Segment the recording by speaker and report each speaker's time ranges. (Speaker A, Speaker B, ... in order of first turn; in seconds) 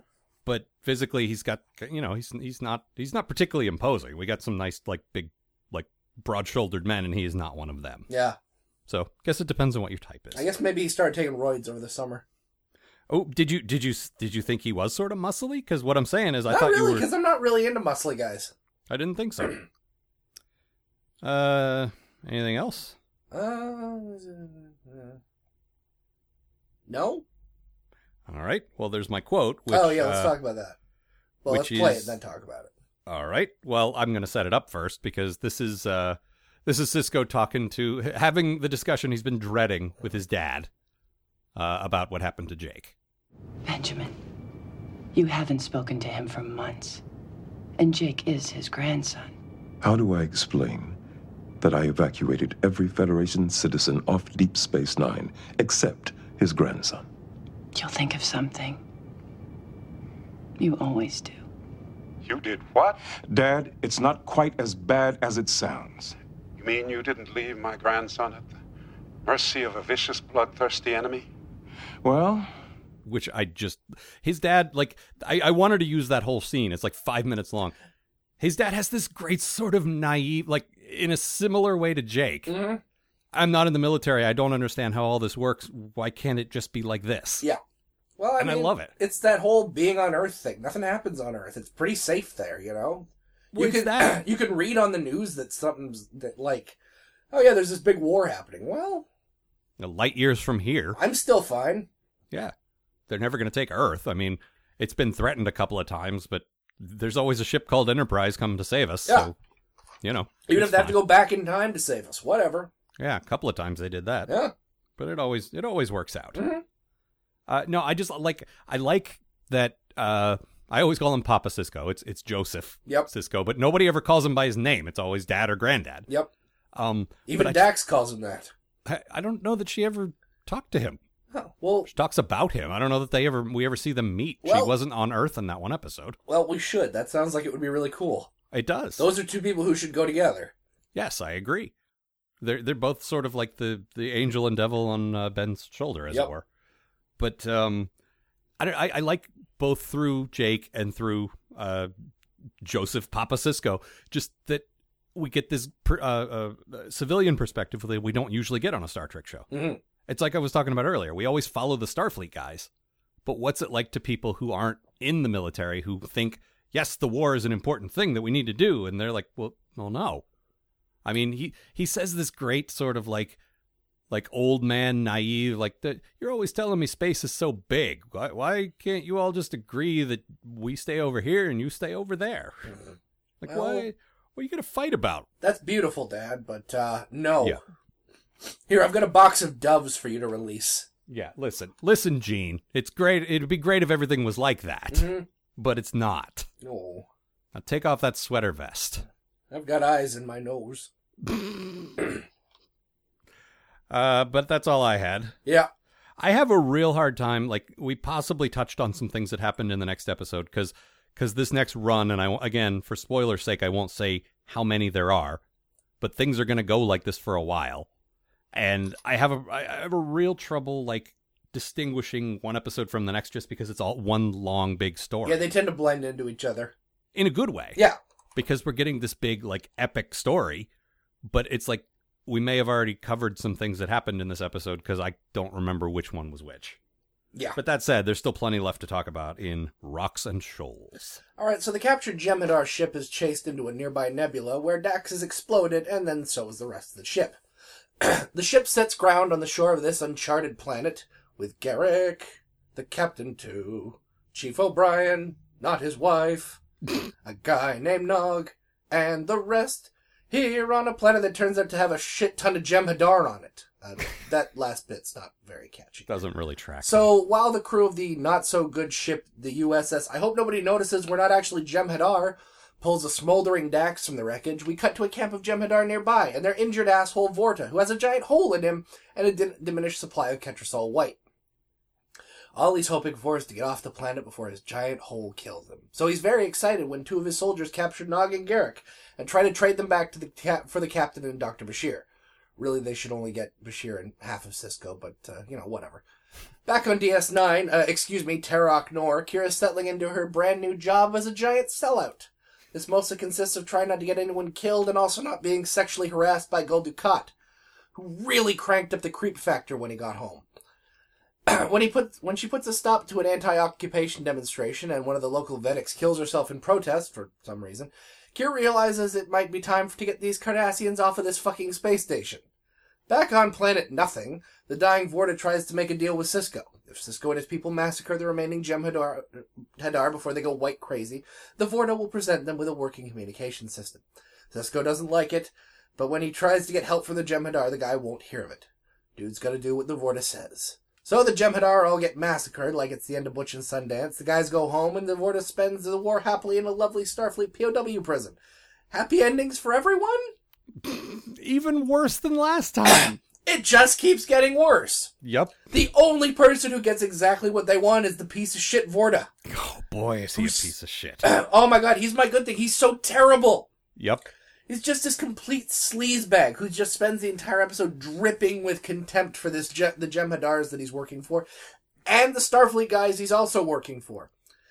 Speaker A: 0.5-8.1, 8.9-10.5, 13.1-17.1, 18.9-19.6, 21.2-22.9, 28.3-30.4, 31.5-32.2, 33.1-40.7, 41.5-42.9, 73.0-77.7, 78.4-82.6, 83.3-87.5, 88.4-88.9, 93.5-94.2, 99.8-101.0, 103.1-109.3, 110.0-111.1, 113.0-114.4, 115.0-116.4, 117.5-126.1, 126.7-127.7, 128.8-131.0, 131.9-136.2, 138.5-139.1, 140.9-141.7, 142.4-146.4, 147.2-147.9, 148.6-151.9, 152.6-159.5, 160.1-162.7, 163.2-170.2, 171.0-173.4, 174.1-182.7, 183.4-185.2, 191.1-196.5, 197.5-199.0, 203.9-205.3, 206.2-215.4, 216.0-217.9, 218.5-225.4, 227.1-227.8, 228.3-230.7, 231.3-236.8, 237.5-241.0, 266.1-267.1, 350.8-353.2, 355.2-355.6, 359.5-361.3, 363.9-364.3
Speaker B: 8.1-8.4, 10.3-12.2, 16.5-18.5, 23.3-25.2, 26.9-27.2, 29.7-30.8, 31.4-32.7, 82.5-82.8, 88.2-96.8, 97.3-99.0, 100.9-101.9, 110.5-112.7, 114.3-114.5, 116.3-116.6, 127.3-128.5, 131.3-131.9, 134.4-134.7, 136.3-138.3, 139.0-140.5, 159.5-159.8, 183.5-183.9, 185.4-187.6, 188.7-190.9, 194.9-195.3, 196.6-197.1, 199.5-200.9, 225.2-226.7, 241.4-247.4, 248.0-256.6, 257.2-266.1, 266.8-281.2, 282.5-292.1, 292.6-296.0, 296.6-307.3, 307.9-310.4, 311.4-322.4, 323.1-348.4, 348.9-350.3, 352.9-355.1, 355.7-359.3, 360.3-360.7, 361.2-363.7, 364.7-371.4, 372.1-374.3
Speaker C: 43.6-44.2, 45.1-47.0, 47.8-49.3, 57.7-58.8, 60.6-61.4
Speaker D: 49.8-51.0, 51.6-57.1, 63.1-66.1, 72.0-72.5
Speaker E: 62.2-63.0, 66.6-68.5, 69.2-71.3